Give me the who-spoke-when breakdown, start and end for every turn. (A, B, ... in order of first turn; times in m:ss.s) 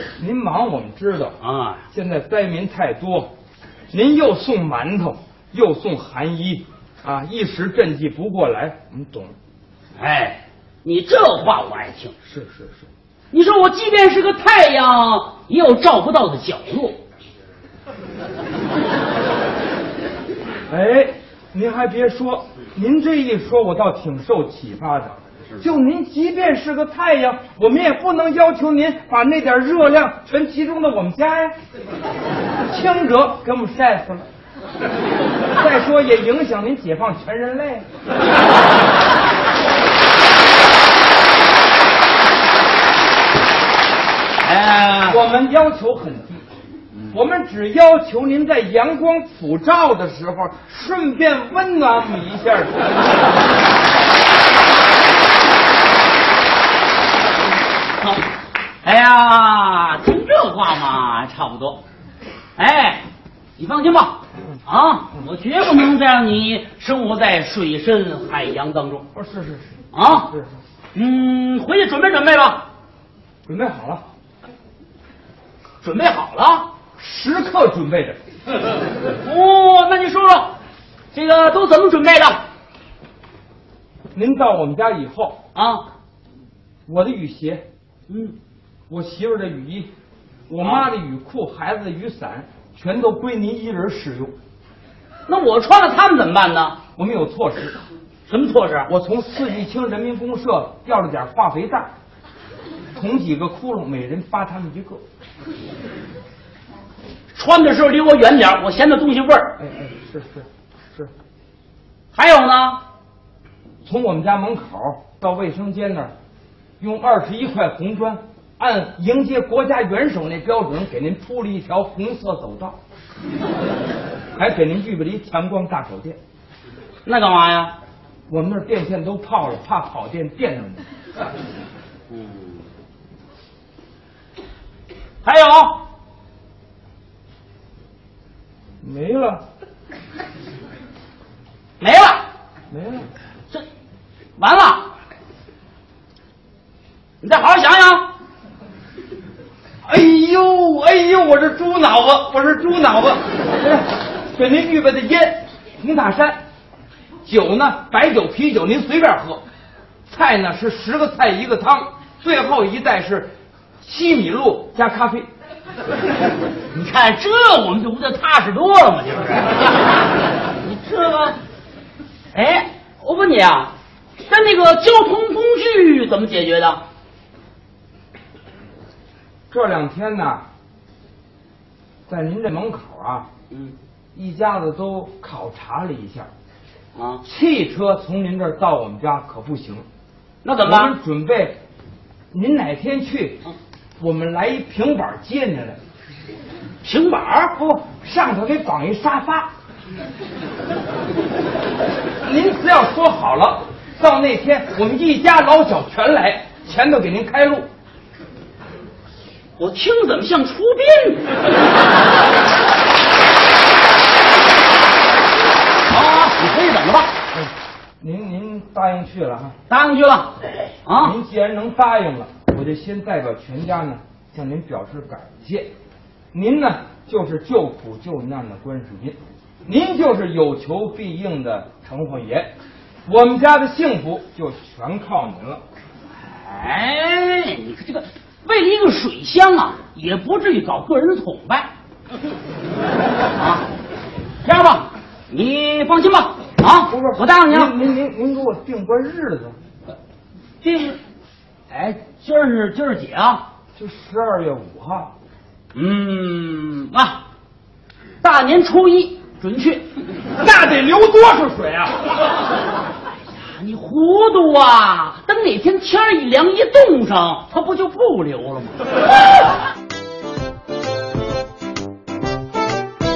0:00.2-0:01.4 A
0:01.4-0:01.8 B
0:01.9-0:03.3 A
0:03.9-0:09.4 A
0:10.0-0:12.1 B
0:12.2-0:12.9 A
0:13.3-0:17.0 B
0:20.7-0:31.6 A
0:32.7-0:34.3 A
0:35.5-0:37.9 A
0:44.4-0:45.2 B
0:45.1-0:46.4 A
0:47.1-0:52.9 A
0:58.0-0:58.3 B
0:58.8-1:01.8 B
1:02.6-1:09.1 B
1:09.2-1:10.6 A
1:09.9-1:10.3 B
1:10.9-1:12.7 B
1:13.5-1:14.1 A
1:15.8-1:16.7 B
1:17.0-1:18.2 A
1:19.2-1:20.6 B
1:21.1-1:22.4 B
1:24.1-1:25.4 A
1:25.6-1:25.9 B
1:26.9-1:27.6 A
1:28.1-1:28.4 B
1:28.9-1:29.9 A
1:30.5-1:34.4 A
1:30.6-1:30.9 B
1:35.3-1:36.8 B
1:37.0-1:37.8 A
1:38.3-1:38.9 B
1:38.9-1:41.9 A
1:43.0-1:45.0 A
1:47.3-1:49.6 B
1:49.6-1:51.1 A
1:52.1-1:52.8 B
1:53.8-1:56.1 A
1:56.8-2:02.8 A
2:04.4-2:06.2 A
2:07.0-2:07.8 B
2:08.3-2:10.9 A
2:12.1-2:12.6 B
2:15.2-2:15.8 B
2:18.8-2:19.4 A
2:21.8-2:22.3 B
2:22.7-2:23.1 A
2:24.4-2:24.9 B
2:27.2-2:28.1 B
2:29.8-2:36.4 A
2:37.2-2:39.4 A
2:40.1-2:45.3 A
2:46.7-2:51.4 B
2:52.3-2:56.8 B
2:59.5-3:00.5 A
3:02.1-3:03.3 A
3:03.5-3:03.8 B
3:04.2-3:06.3 A
3:07.0-3:07.2 B
3:07.2-3:09.8 A
3:10.4-3:10.9 B
3:10.6-3:11.6 A
3:12.3-3:13.4 A
3:14.0-3:15.8 A
3:16.8-3:17.6 B
3:17.6-3:19.5 A
3:22.2-3:27.7 A
3:29.6-3:31.4 B
3:35.9-3:37.1 B
3:37.3-3:39.6 A
3:39.7-3:41.2 B
3:41.0-3:45.7 A
3:46.3-3:52.5 A
3:53.1-3:55.6 A
3:56.3-4:01.7 B
4:03.4-4:03.7 B
4:04.4-4:07.8 B
4:06.9-4:09.6 A
4:10.6-4:11.0 B
4:11.7-4:13.5 B
4:13.8-4:15.2 A
4:15.7-4:17.2 B
4:18.2-4:19.9 B
4:20.3-4:22.1 A
4:23.4-4:28.9 B